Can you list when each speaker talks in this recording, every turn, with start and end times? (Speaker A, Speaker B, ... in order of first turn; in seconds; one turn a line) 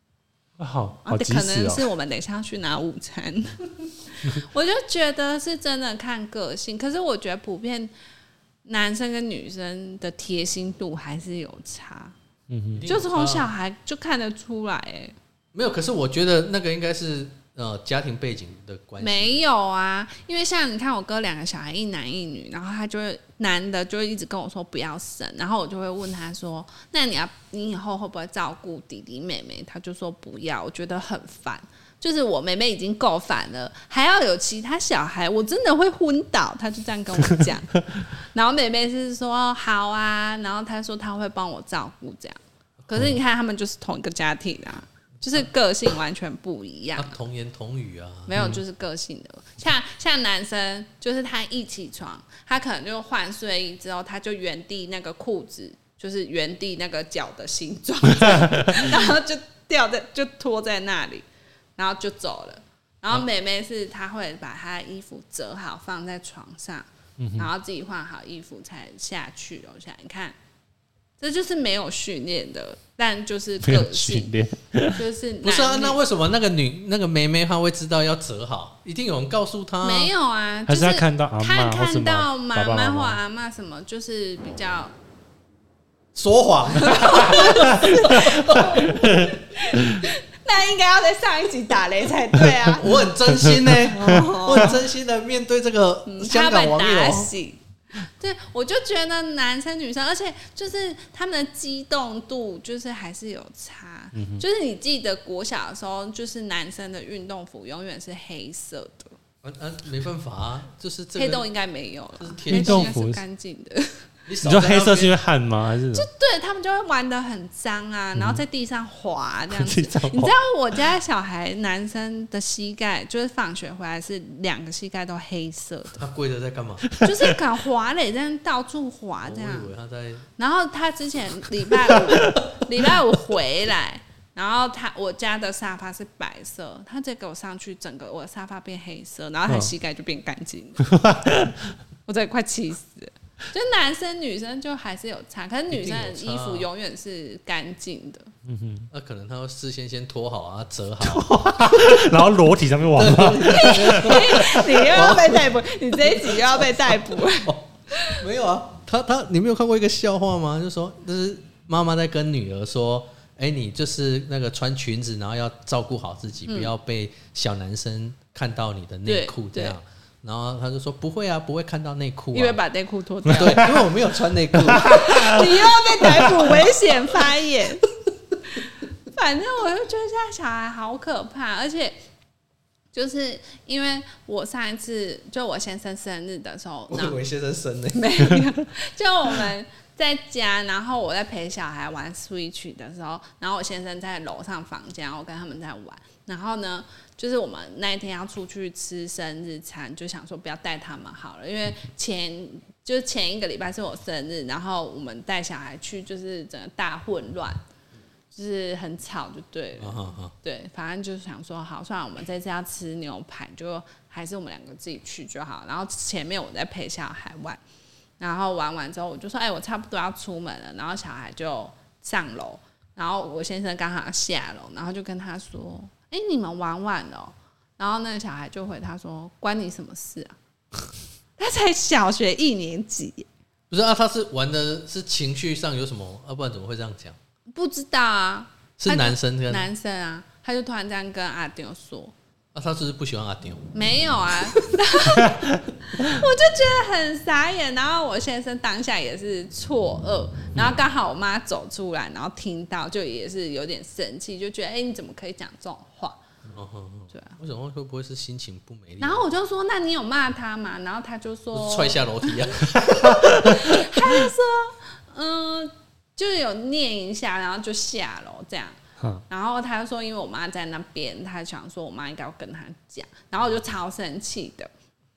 Speaker A: 0.6-1.9
Speaker B: 1.1-7.9
Speaker B: 8.7-12.2
Speaker A: 12.5-12.9
Speaker C: 12.7-13.5
Speaker B: 12.9-15.2
Speaker C: 15.5-19.4
Speaker B: 19.0-47.1
Speaker C: 47.0-48.4
Speaker B: 48.3-61.3
Speaker A: 58.2-58.7
Speaker B: 61.8-70.4
Speaker A: 67.2-67.5
Speaker B: 71.2-74.3
Speaker A: 73.7-75.0
Speaker B: 74.9-76.0
Speaker C: 75.4-80.1
Speaker B: 79.8-84.9
Speaker A: 80.7-83.2
Speaker C: 86.1-88.9
Speaker B: 86.8-93.0
Speaker A: 88.9-89.3
Speaker C: 92.8-97.3
Speaker A: 93.4-93.8
Speaker B: 93.6-94.8
Speaker B: 96.1-109.2
Speaker A: 104.1-104.4
Speaker C: 109.4-111.5
Speaker B: 111.2-114.1
Speaker C: 112.2-113.0
Speaker A: 112.5-113.2
Speaker C: 114.3-115.2
Speaker A: 114.4-116.1
Speaker B: 115.9-126.0
Speaker A: 118.2-118.4
Speaker A: 119.5-120.4
Speaker C: 126.0-126.9
Speaker A: 126.9-127.4
Speaker B: 127.0-129.7
Speaker C: 129.2-130.3
Speaker B: 130.4-140.9
Speaker A: 140.8-141.7
Speaker B: 142.1-148.3
Speaker C: 145.7-146.7
Speaker A: 148.5-148.9
Speaker C: 148.9-152.2
Speaker A: 151.0-154.5
Speaker C: 153.0-172.6
Speaker B: 153.5-158.2
Speaker B: 166.5-166.7
Speaker B: 169.1-169.8
Speaker B: 172.3-173.8
Speaker C: 173.3-176.9
Speaker A: 174.7-175.1
Speaker B: 174.8-177.9
Speaker B: 178.5-182.0
Speaker B: 182.9-187.2
Speaker C: 186.9-188.3
Speaker B: 187.9-207.6
Speaker B: 208.3-217.6
Speaker C: 209.8-210.3
Speaker B: 218.2-230.4
Speaker B: 231.4-233.3
Speaker C: 233.7-237.2
Speaker B: 237.5-242.1
Speaker C: 238.8-239.7
Speaker C: 242.5-243.7
Speaker B: 243.7-256.2
Speaker C: 256.4-259.3
Speaker B: 257.1-257.4
Speaker B: 259.0-274.7
Speaker C: 261.5-263.2
Speaker A: 269.0-269.2